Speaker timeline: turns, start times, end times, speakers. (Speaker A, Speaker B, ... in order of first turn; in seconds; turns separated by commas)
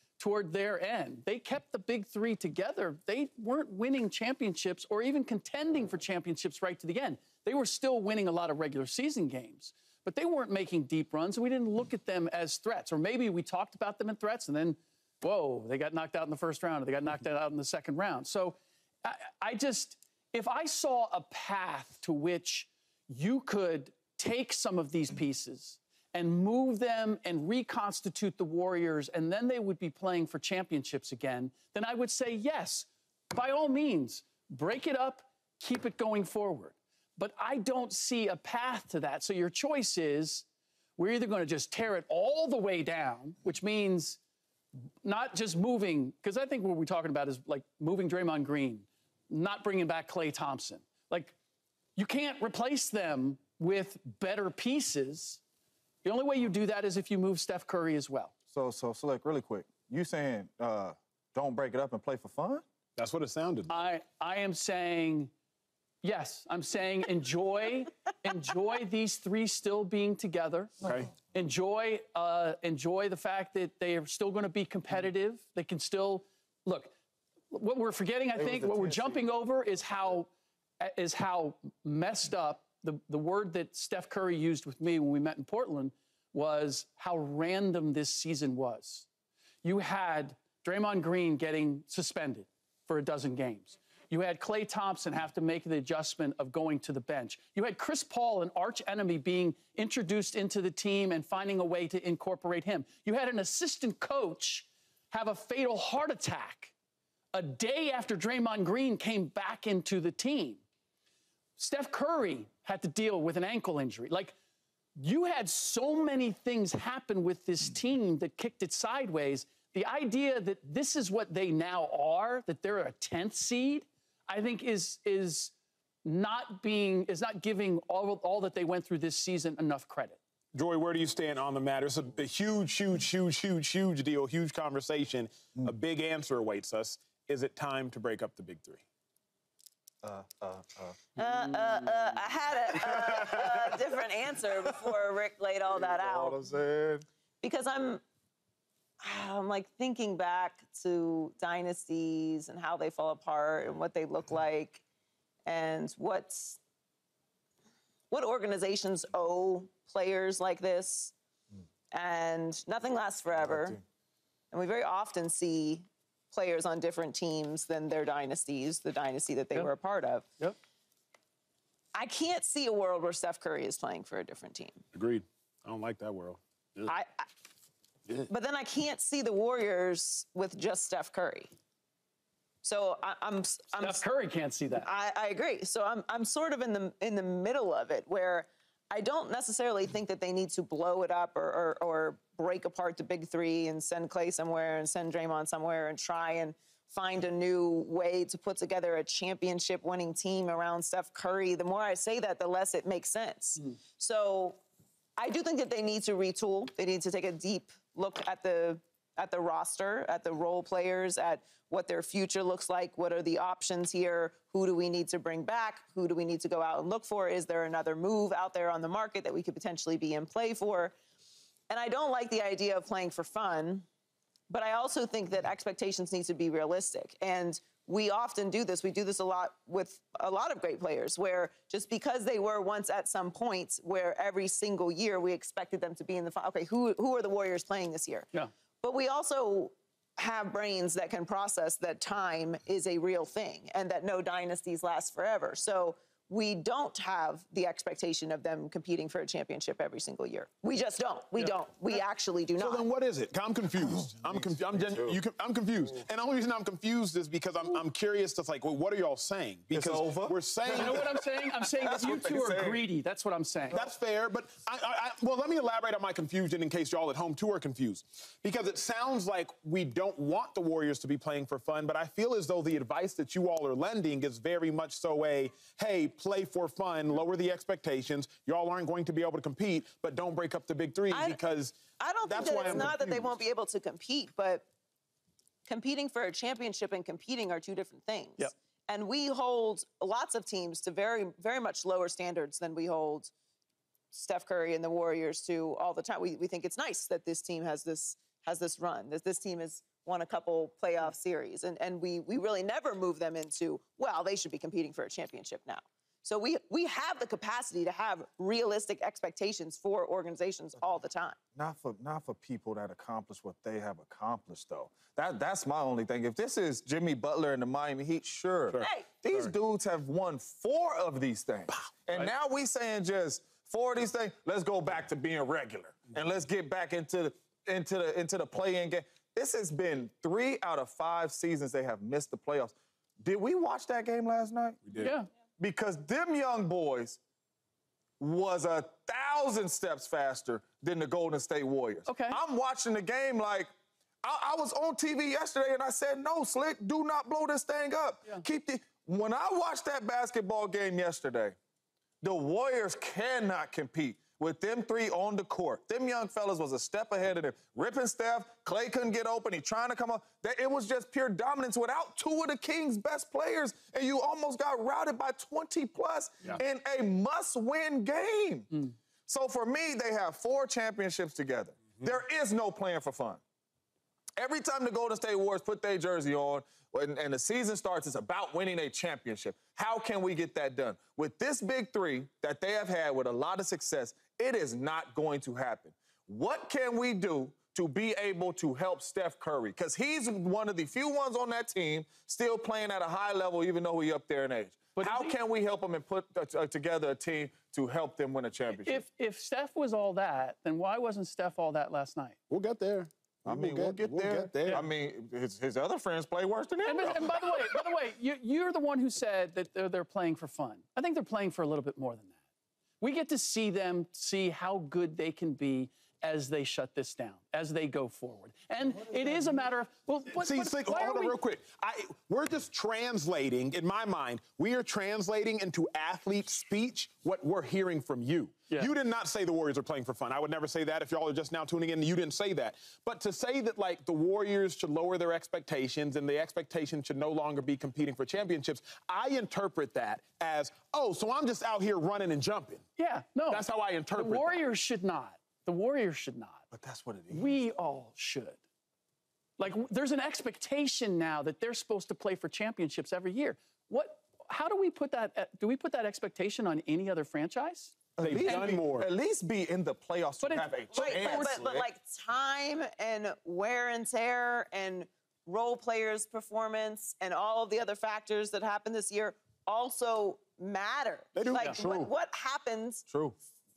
Speaker A: 0.2-40.5, Speaker A: 41.0-44.2, Speaker A: 45.0-51.3, Speaker A: 52.0-55.4, Speaker A: 56.0-58.3, Speaker B: 58.5-62.6, Speaker C: 63.0-63.8, Speaker A: 63.7-65.3, Speaker A: 66.0-76.9, Speaker C: 70.8-71.1, Speaker A: 77.5-89.1, Speaker B: 78.5-79.2, Speaker A: 89.6-106.7, Speaker A: 107.3-110.6, Speaker A: 111.6-114.3, Speaker A: 115.0-125.5, Speaker A: 126.0-130.2, Speaker C: 130.5-138.8, Speaker B: 140.0-141.0, Speaker D: 141.2-146.4, Speaker B: 145.8-147.1, Speaker D: 147.4-148.0, Speaker D: 149.0-154.8, Speaker D: 155.4-156.6, Speaker D: 158.1-161.1, Speaker D: 161.9-163.8, Speaker D: 164.5-170.2, Speaker D: 171.9-174.8, Speaker C: 174.9-176.9, Speaker D: 176.8-177.3, Speaker D: 178.3-181.5, Speaker D: 182.6-184.0, Speaker A: 183.8-184.9, Speaker D: 184.7-204.6, Speaker D: 205.2-220.9, Speaker D: 221.7-223.8, Speaker D: 224.5-238.3, Speaker D: 238.8-252.8, Speaker C: 252.6-261.0, Speaker B: 254.2-255.2, Speaker B: 259.7-262.8, Speaker A: 260.7-263.8, Speaker C: 263.7-283.4, Speaker D: 281.1-281.4, Speaker D: 282.0-284.6, Speaker D: 285.7-293.3, Speaker D: 294.1-311.4, Speaker B: 311.5-337.2, Speaker C: 318.7-319.5, Speaker D: 318.8-319.1, Speaker A: 335.0-335.3, Speaker B: 338.2-343.7, Speaker A: 342.1-342.4, Speaker B: 344.2-351.5, Speaker B: 352.2-373.4, Speaker B: 374.4-399.0, Speaker A: 394.9-395.3, Speaker A: 398.8-402.4, Speaker C: 402.5-404.8, Speaker B: 403.4-407.8, Speaker A: 406.8-412.4, Speaker A: 413.0-421.4, Speaker C: 420.4-442.8, Speaker A: 443.0-446.6, Speaker C: 443.5-444.6, Speaker B: 446.7-447.5, Speaker A: 447.3-448.6, Speaker A: 449.6-458.7, Speaker B: 458.2-461.9, Speaker C: 458.2-459.1, Speaker A: 460.4-461.6, Speaker D: 460.9-473.0, Speaker C: 471.3-472.1, Speaker B: 473.1-473.3